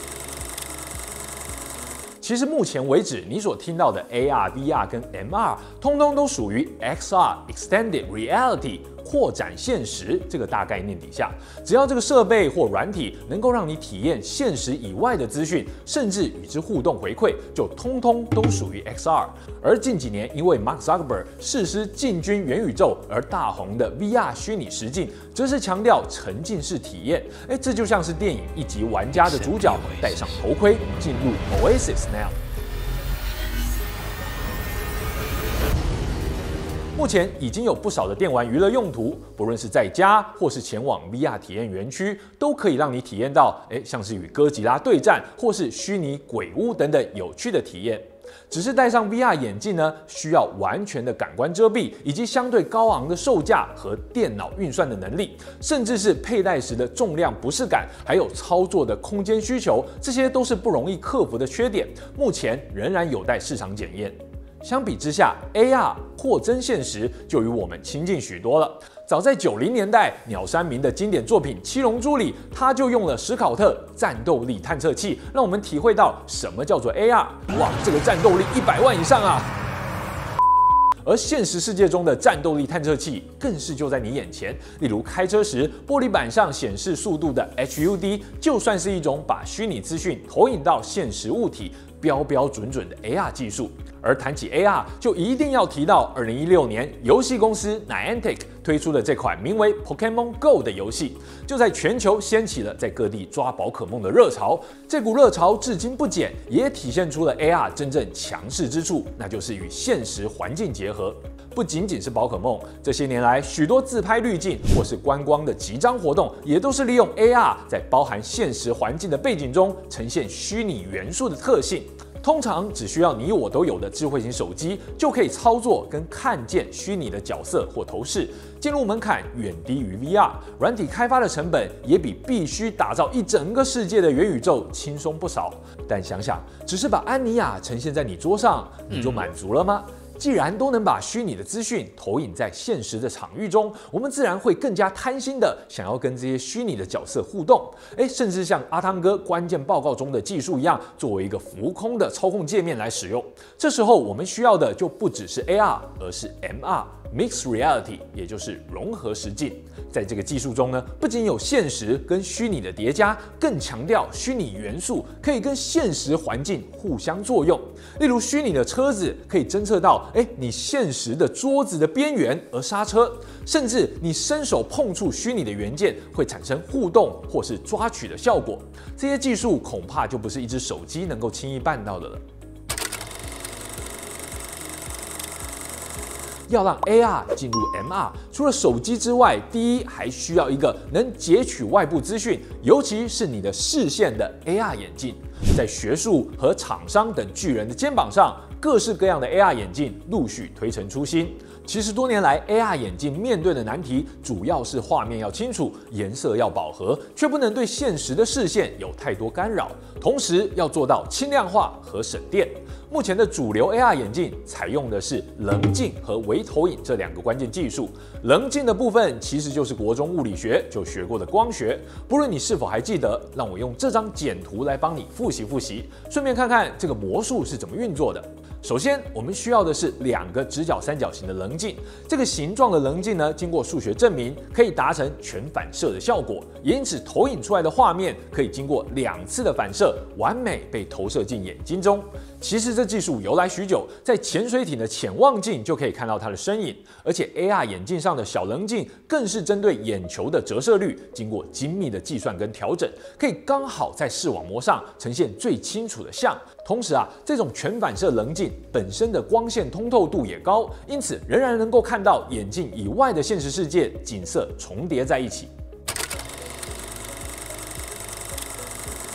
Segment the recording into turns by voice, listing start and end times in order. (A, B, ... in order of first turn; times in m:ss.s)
0:02.2-0:32.4 A
0:36.9-1:19.5 A
1:21.0-3:02.2 A
3:06.5-4:25.5 A